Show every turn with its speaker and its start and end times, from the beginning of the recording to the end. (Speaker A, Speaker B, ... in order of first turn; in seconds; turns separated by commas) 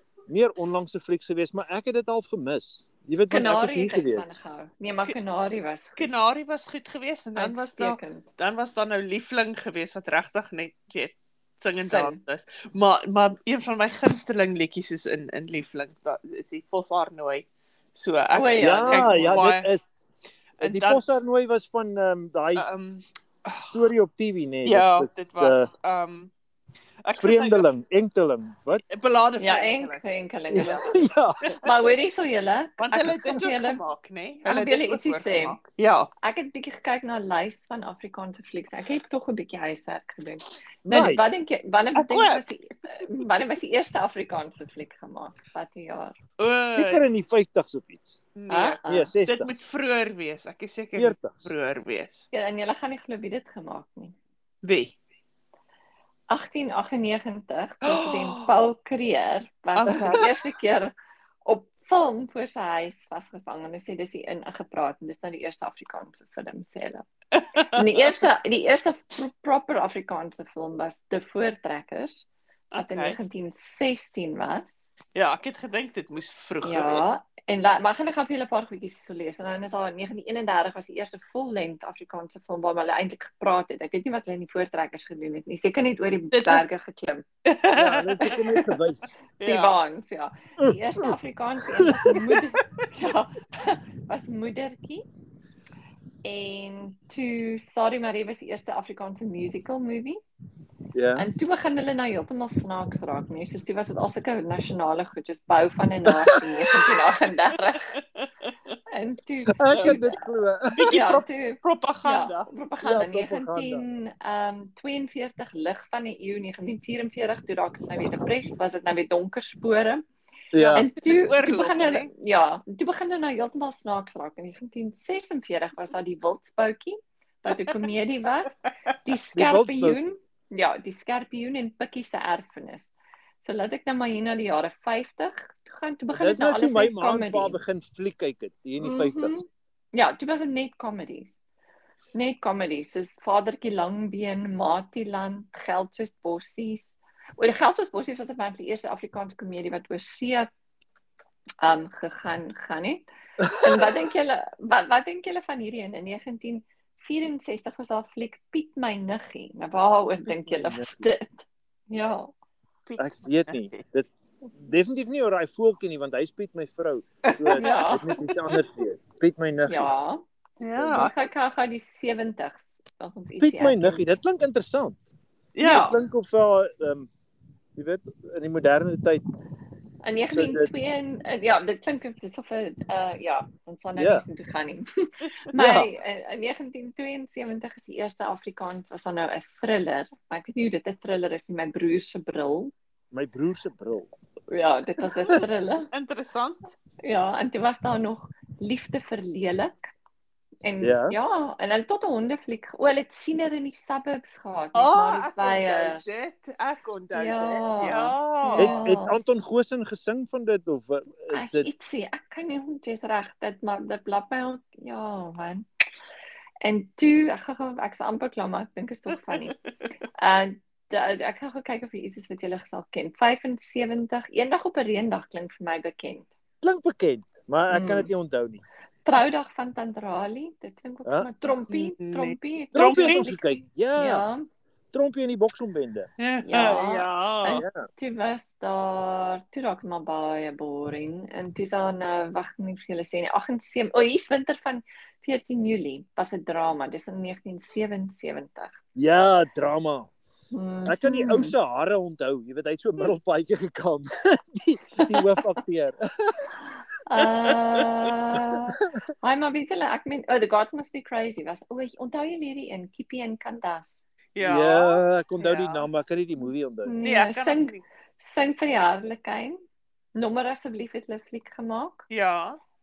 Speaker A: 0.3-4.4, Speaker B: 3.3-6.1, Speaker C: 6.0-19.7, Speaker B: 7.3-8.2, Speaker B: 11.8-12.2, Speaker B: 18.3-19.4, Speaker A: 18.6-19.9, Speaker C: 20.6-21.0, Speaker A: 20.6-22.6, Speaker C: 22.6-23.8, Speaker A: 23.6-25.7, Speaker C: 24.6-26.3, Speaker C: 27.0-27.7, Speaker A: 27.1-28.8, Speaker C: 28.9-30.1, Speaker B: 29.4-33.8, Speaker A: 30.5-31.4, Speaker C: 32.8-36.1, Speaker B: 34.4-35.6, Speaker B: 36.2-46.2, Speaker A: 40.9-41.2, Speaker C: 41.9-42.5, Speaker C: 46.4-47.0, Speaker A: 46.8-48.1, Speaker C: 48.4-52.3, Speaker B: 48.5-49.1, Speaker A: 48.8-49.5, Speaker A: 50.9-51.5, Speaker B: 52.3-54.1, Speaker C: 54.6-54.9, Speaker B: 56.3-60.9, Speaker C: 57.8-58.5, Speaker C: 59.7-60.3, Speaker B: 61.4-67.0, Speaker C: 67.3-68.0, Speaker B: 67.8-72.1, Speaker C: 72.7-73.2, Speaker B: 72.7-74.7, Speaker C: 75.1-77.1, Speaker B: 76.6-87.2, Speaker C: 86.3-86.7, Speaker C: 87.5-88.4, Speaker A: 87.7-89.1, Speaker B: 88.2-88.8, Speaker C: 89.4-89.7, Speaker B: 89.4-95.0, Speaker A: 90.6-91.2, Speaker C: 92.1-92.5, Speaker B: 96.2-100.2, Speaker A: 100.9-101.3, Speaker B: 101.2-107.9, Speaker A: 106.1-106.5, Speaker C: 107.9-108.5, Speaker B: 108.9-110.2, Speaker A: 109.6-110.9, Speaker C: 109.7-110.0, Speaker C: 110.7-112.5, Speaker B: 110.9-120.0, Speaker A: 112.8-113.8, Speaker A: 120.5-120.8, Speaker C: 120.5-122.1, Speaker B: 120.7-137.6, Speaker A: 129.3-130.0, Speaker A: 136.1-139.4, Speaker B: 138.8-141.4, Speaker B: 142.1-150.5, Speaker B: 151.6-161.3, Speaker A: 160.3-161.1, Speaker B: 161.9-162.3, Speaker C: 162.9-163.8, Speaker A: 163.0-169.9, Speaker C: 167.3-168.6, Speaker B: 167.6-168.1, Speaker B: 169.7-170.2, Speaker C: 170.6-171.1, Speaker A: 170.8-171.1, Speaker B: 170.9-174.0, Speaker A: 173.4-175.0, Speaker C: 175.6-175.9, Speaker A: 175.6-177.1, Speaker A: 177.8-179.2, Speaker B: 180.0-192.7, Speaker A: 180.3-180.7, Speaker A: 183.9-184.2, Speaker C: 185.5-185.9, Speaker A: 193.1-194.1, Speaker B: 194.5-195.9, Speaker C: 195.9-196.8, Speaker B: 197.0-199.7, Speaker B: 200.6-206.0, Speaker A: 200.8-201.2, Speaker C: 204.7-208.8, Speaker B: 207.1-209.2, Speaker A: 208.6-211.7, Speaker B: 211.3-215.7, Speaker B: 216.6-219.5, Speaker B: 220.2-226.3, Speaker A: 226.6-228.6, Speaker B: 227.7-228.1, Speaker B: 229.0-234.4, Speaker A: 231.0-231.6, Speaker C: 231.7-233.3, Speaker A: 232.7-234.2, Speaker A: 234.9-236.1, Speaker C: 236.2-237.6, Speaker B: 236.4-248.7, Speaker A: 237.5-237.8, Speaker A: 248.9-250.1, Speaker B: 250.5-251.5, Speaker A: 250.8-256.3, Speaker B: 257.1-264.0, Speaker C: 264.3-265.9, Speaker A: 264.4-266.9, Speaker B: 266.8-269.6, Speaker C: 267.0-267.8, Speaker B: 270.1-272.0, Speaker C: 272.1-272.6